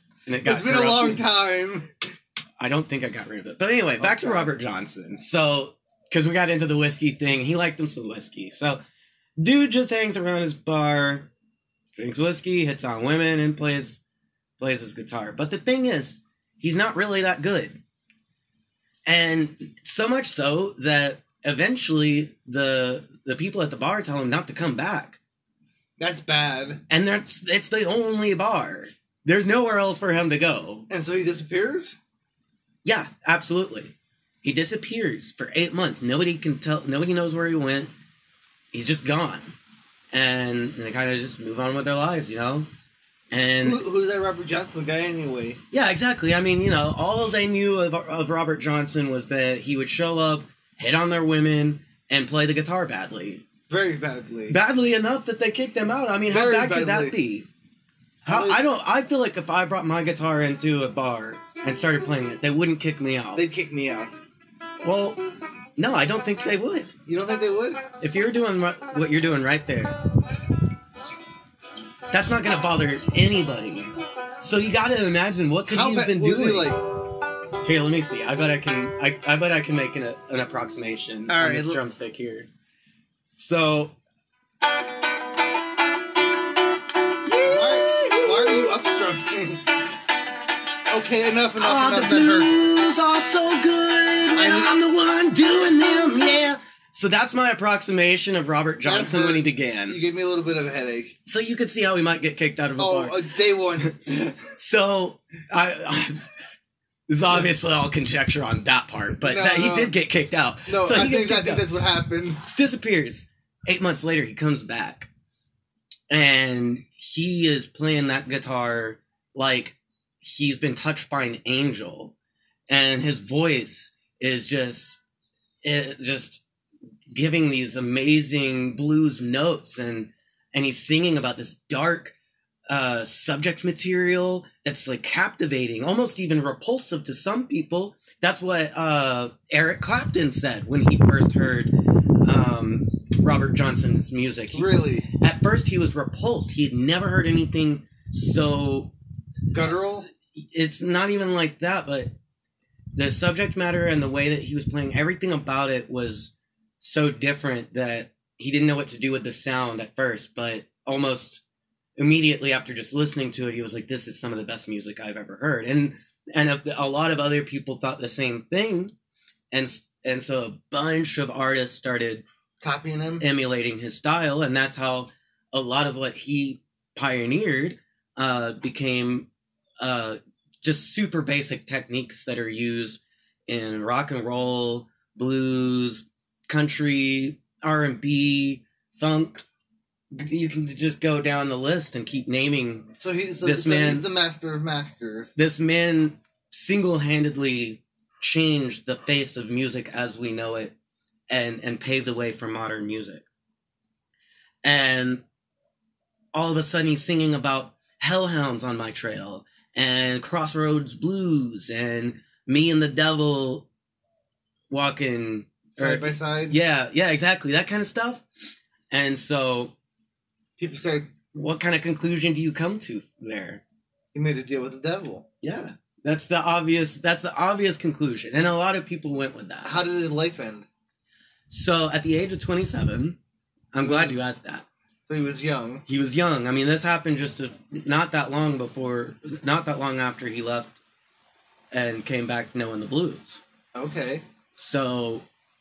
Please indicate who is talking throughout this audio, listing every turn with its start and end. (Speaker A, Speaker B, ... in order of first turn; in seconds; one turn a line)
Speaker A: 0.3-1.2
Speaker B: 0.4-1.9
Speaker A: 2.6-8.8
Speaker B: 4.0-4.5
Speaker A: 9.4-11.3
Speaker A: 11.9-14.0
Speaker A: 14.6-17.8
Speaker A: 19.1-25.2
Speaker B: 26.0-26.8
Speaker A: 26.9-30.9
Speaker B: 30.9-32.0
Speaker A: 32.8-37.9
Speaker A: 38.7-39.5
Speaker A: 40.1-42.7
Speaker A: 43.3-43.8
Speaker B: 43.6-45.6
Speaker A: 45.7-53.4
Speaker B: 53.7-54.6
Speaker A: 54.5-57.5
Speaker B: 56.3-57.2
Speaker A: 58.2-63.4
Speaker B: 58.3-58.6
Speaker B: 63.4-64.1
Speaker A: 64.8-65.2
Speaker A: 65.8-66.9
Speaker B: 67.1-67.8
Speaker A: 68.0-70.0
Speaker A: 72.1-76.8
Speaker B: 75.7-76.8
Speaker A: 77.6-82.5
Speaker B: 81.3-81.8
Speaker A: 83.3-84.0
Speaker A: 87.2-88.8
Speaker B: 87.4-89.7
Speaker B: 90.9-92.5
Speaker A: 91.6-100.0
Speaker B: 94.3-94.7
Speaker B: 98.8-101.2
Speaker A: 101.3-103.2
Speaker B: 102.8-104.2
Speaker A: 103.8-106.3
Speaker A: 107.1-111.7
Speaker B: 109.2-109.9
Speaker B: 110.7-112.4
Speaker A: 112.5-115.1
Speaker A: 116.1-122.1
Speaker A: 122.7-125.0
Speaker A: 125.6-126.4
Speaker A: 127.1-132.2
Speaker A: 132.7-148.9
Speaker B: 144.5-145.1
Speaker B: 149.5-150.1
Speaker A: 150.3-152.1
Speaker A: 152.9-161.4
Speaker A: 162.0-168.9
Speaker A: 169.5-172.2
Speaker B: 172.6-173.3
Speaker A: 173.2-179.3
Speaker A: 179.8-189.4
Speaker A: 190.1-194.1
Speaker B: 193.0-195.3
Speaker A: 195.4-200.7
Speaker A: 201.3-203.2
Speaker A: 204.6-205.2
Speaker A: 206.3-213.7
Speaker A: 214.7-218.2
Speaker B: 215.7-216.6
Speaker A: 218.9-219.7
Speaker B: 220.6-221.1
Speaker A: 221.3-223.6
Speaker B: 224.1-225.2
Speaker A: 225.4-229.8
Speaker B: 229.6-230.7
Speaker A: 231.5-233.2
Speaker A: 233.7-234.7
Speaker B: 233.8-234.2
Speaker B: 235.1-235.8
Speaker A: 235.9-240.8
Speaker A: 241.7-243.4
Speaker B: 243.8-244.2
Speaker A: 244.6-245.2